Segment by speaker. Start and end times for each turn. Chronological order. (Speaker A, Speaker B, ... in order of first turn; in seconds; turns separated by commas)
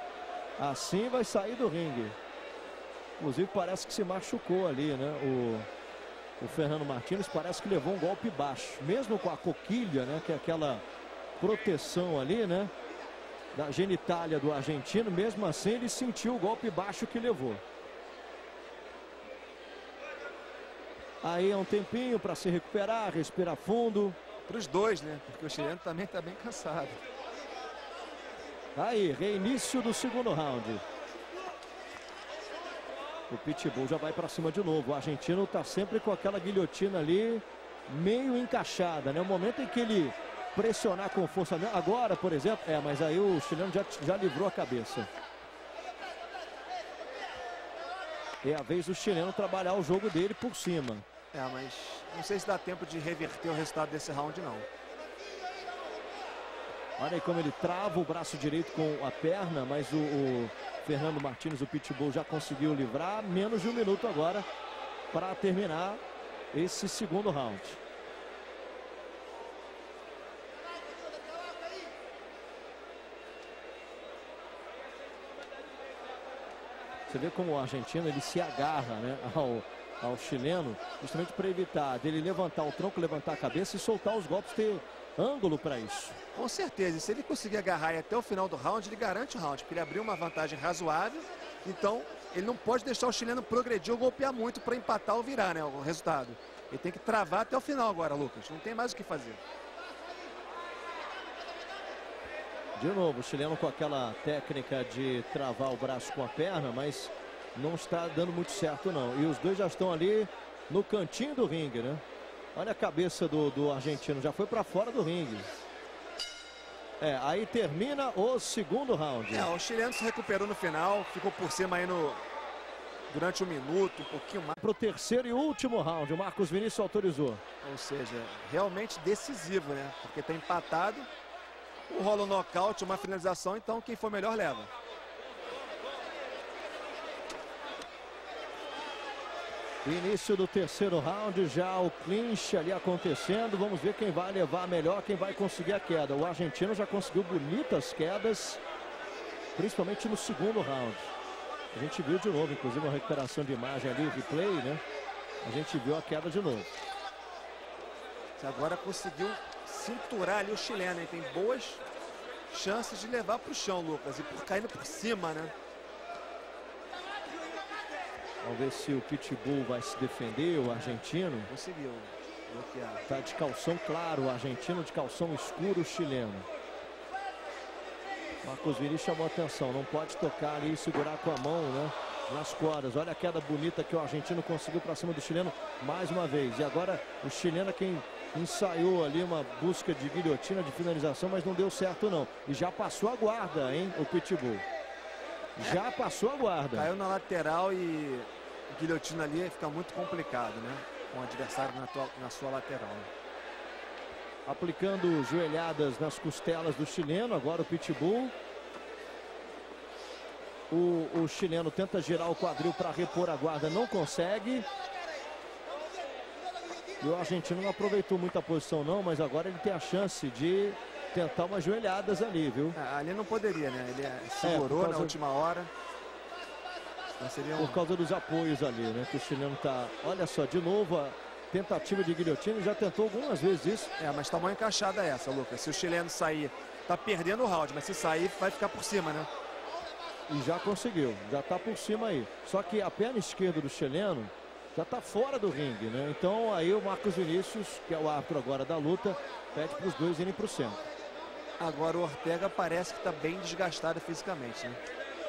Speaker A: 0.6-2.2, Speaker A: 3.2-5.7, Speaker A: 6.4-10.8, Speaker A: 11.4-12.7, Speaker A: 13.5-17.6, Speaker A: 21.2-24.2, Speaker B: 24.5-27.0, Speaker A: 28.8-30.8, Speaker A: 33.3-45.1, Speaker A: 48.4-51.1, Speaker B: 51.3-54.7, Speaker A: 57.0-64.5, Speaker A: 65.1-66.0, Speaker A: 66.5-67.8, Speaker A: 77.1-86.2, Speaker B: 86.3-99.4, Speaker A: 102.8-112.0, Speaker A: 112.5-115.5, Speaker A: 117.0-119.5, Speaker B: 119.3-122.2, Speaker B: 123.1-124.6, Speaker A: 124.6-127.4, Speaker B: 127.6-131.1, Speaker B: 131.9-134.7, Speaker A: 139.8-148.6, Speaker A: 149.6-151.1, Speaker A: 151.7-154.8, Speaker A: 155.4-156.7, Speaker B: 158.4-161.8, Speaker B: 162.5-165.5, Speaker A: 168.4-171.5, Speaker B: 171.5-173.1, Speaker A: 173.1-176.5, Speaker A: 178.4-194.6, Speaker A: 195.6-196.9, Speaker B: 196.7-203.1, Speaker A: 204.5-208.3, Speaker A: 210.7-214.7, Speaker A: 217.0-222.8, Speaker B: 222.8-225.7, Speaker A: 224.4-225.2, Speaker B: 227.2-227.8, Speaker A: 227.6-233.9, Speaker B: 234.0-239.3, Speaker A: 240.3-250.9, Speaker B: 251.6-254.8